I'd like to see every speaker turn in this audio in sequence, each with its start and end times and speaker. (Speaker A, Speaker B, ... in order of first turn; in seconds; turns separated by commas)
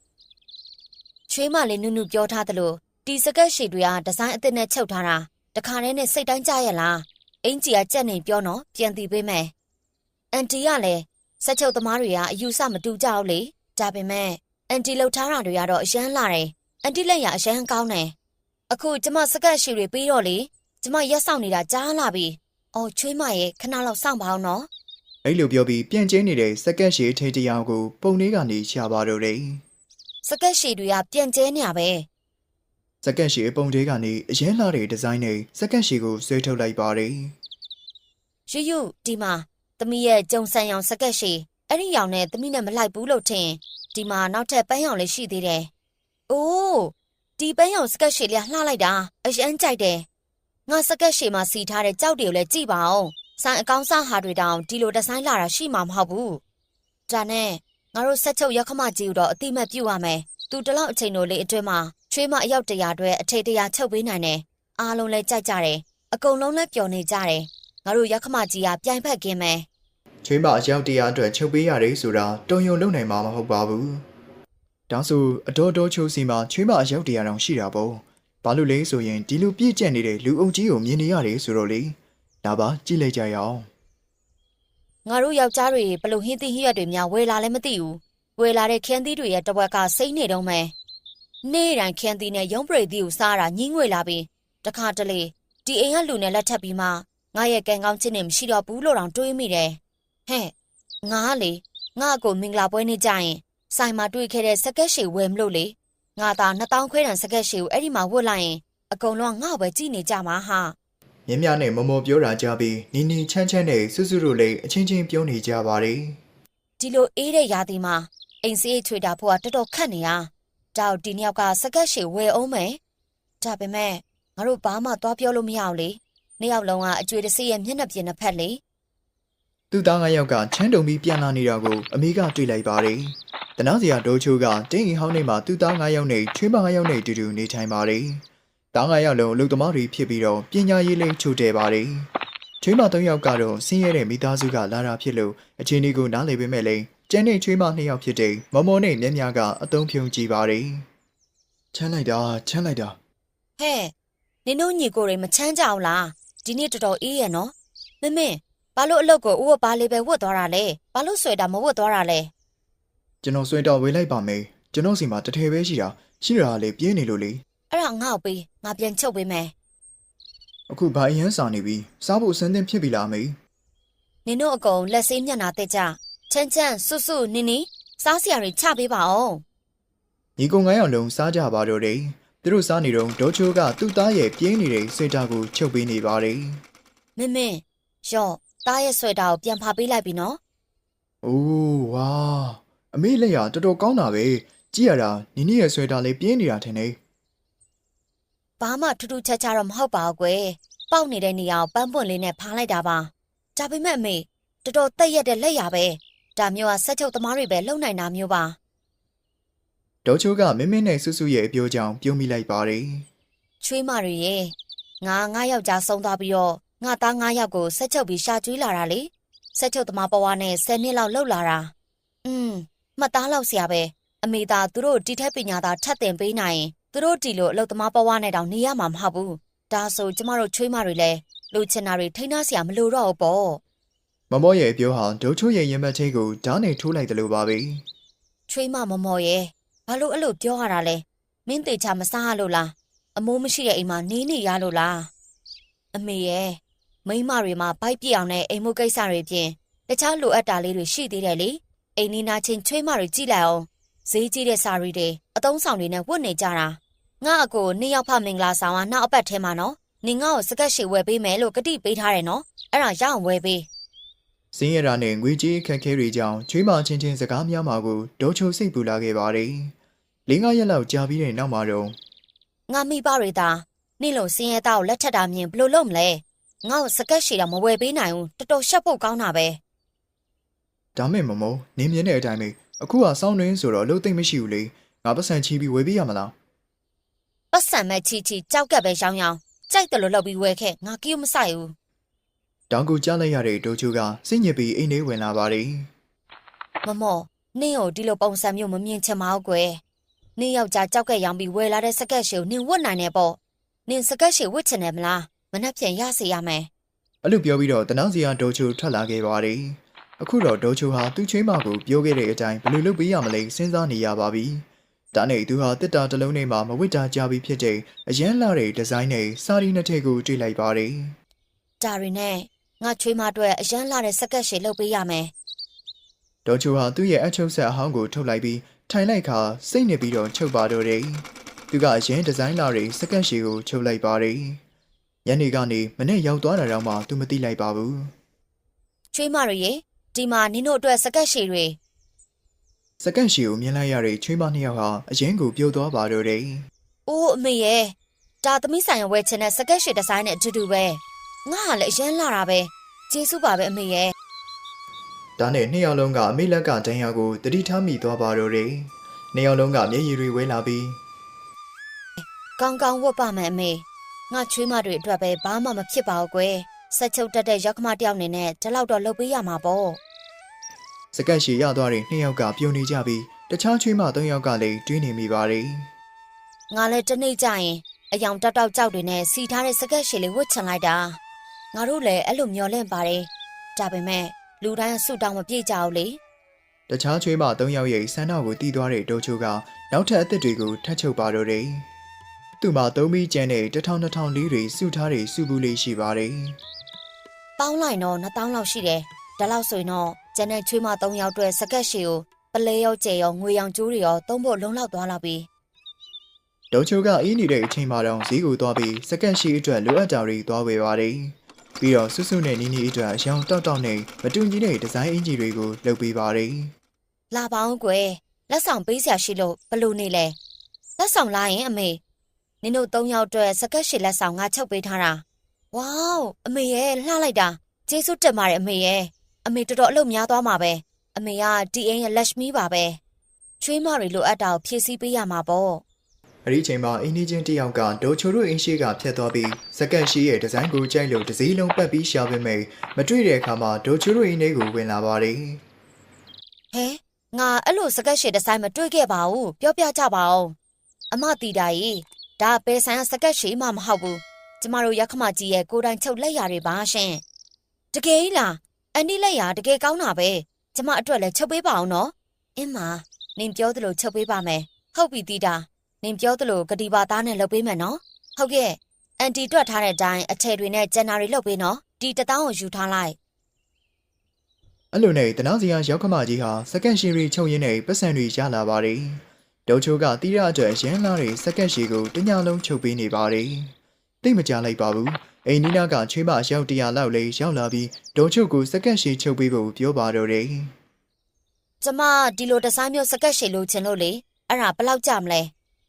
Speaker A: 1.3-9.5, Speaker A: 10.3-18.1, Speaker A: 18.7-24.7, Speaker B: 25.2-29.6, Speaker A: 30.2-32.1, Speaker B: 33.0-37.4, Speaker A: 38.5-45.7, Speaker A: 46.3-50.1, Speaker A: 50.7-56.4, Speaker A: 57.1-69.7, Speaker B: 70.2-74.0, Speaker B: 74.9-83.7, Speaker A: 85.1-90.7, Speaker A: 91.4-110.8, Speaker B: 111.3-116.2, Speaker A: 116.8-122.8, Speaker A: 123.4-128.6, Speaker B: 129.7-142.1, Speaker B: 142.6-150.8, Speaker B: 151.7-153.0, Speaker A: 153.6-153.9, Speaker A: 154.4-162.3, Speaker B: 163.2-167.4, Speaker A: 167.7-169.5, Speaker B: 170.7-173.4, Speaker A: 174.3-179.4, Speaker B: 180.4-186.6, Speaker A: 187.2-190.4, Speaker B: 191.2-197.0, Speaker A: 198.6-208.6, Speaker B: 210.0-213.1, Speaker A: 213.6-221.7, Speaker A: 222.2-233.6, Speaker B: 234.3-237.8, Speaker A: 238.5-245.1, Speaker A: 245.9-263.7, Speaker B: 264.5-269.7, Speaker B: 270.3-272.0, Speaker A: 272.7-279.6, Speaker B: 281.0-286.4, Speaker A: 287.5-291.8, Speaker B: 292.7-295.9, Speaker A: 296.8-299.8, Speaker A: 300.4-306.7, Speaker B: 307.2-321.2, Speaker A: 321.8-325.3, Speaker B: 326.4-334.6, Speaker B: 335.2-338.1, Speaker A: 339.1-341.8, Speaker B: 343.0-346.7, Speaker A: 347.1-354.1, Speaker B: 355.4-361.0, Speaker A: 362.2-370.0, Speaker B: 371.1-375.9, Speaker A: 376.7-381.2, Speaker A: 381.7-386.2, Speaker B: 386.9-391.9, Speaker B: 392.6-396.6, Speaker A: 397.6-405.5, Speaker B: 406.7-416.7, Speaker A: 417.3-420.4, Speaker A: 421.0-422.0, Speaker A: 422.6-433.0, Speaker A: 433.6-435.8, Speaker B: 436.4-445.6, Speaker A: 446.7-450.6, Speaker A: 451.1-457.2, Speaker A: 457.9-473.2, Speaker B: 474.9-490.7, Speaker A: 491.8-495.5